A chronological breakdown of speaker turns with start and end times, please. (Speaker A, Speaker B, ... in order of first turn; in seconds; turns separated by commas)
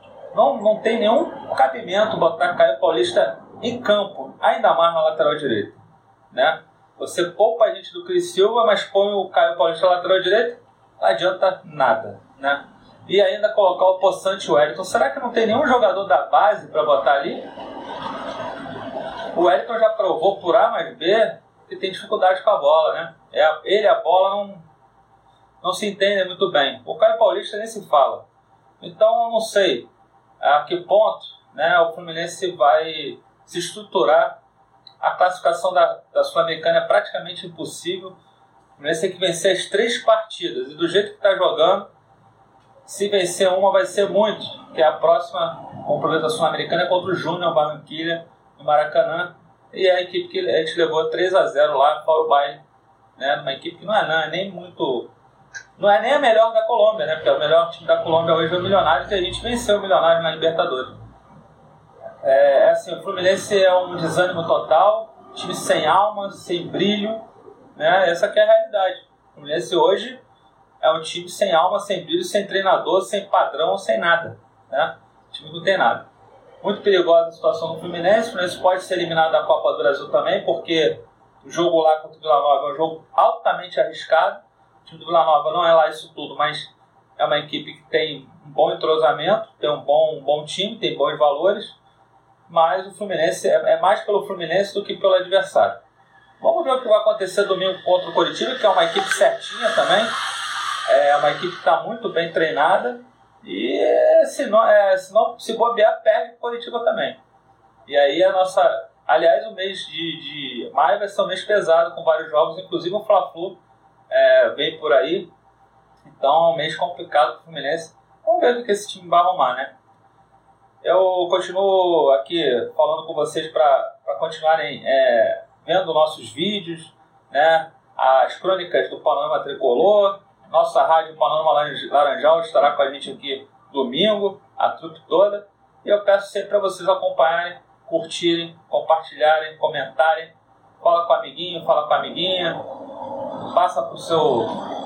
Speaker A: 0.3-5.8, Speaker A: 6.3-17.4, Speaker A: 19.3-24.6, Speaker A: 25.6-28.2, Speaker A: 28.8-29.9, Speaker A: 30.4-34.4, Speaker A: 35.0-38.2, Speaker A: 38.8-41.9, Speaker A: 42.8-52.6, Speaker A: 53.2-55.1, Speaker A: 55.8-60.9, Speaker A: 62.2-67.2, Speaker A: 67.7-70.2, Speaker A: 70.8-76.0, Speaker A: 76.6-91.8, Speaker A: 92.5-95.8, Speaker A: 96.4-100.1, Speaker A: 100.8-107.2, Speaker A: 107.9-113.6, Speaker A: 114.1-115.3, Speaker A: 116.0-119.7, Speaker A: 120.8-142.6, Speaker A: 143.5-144.7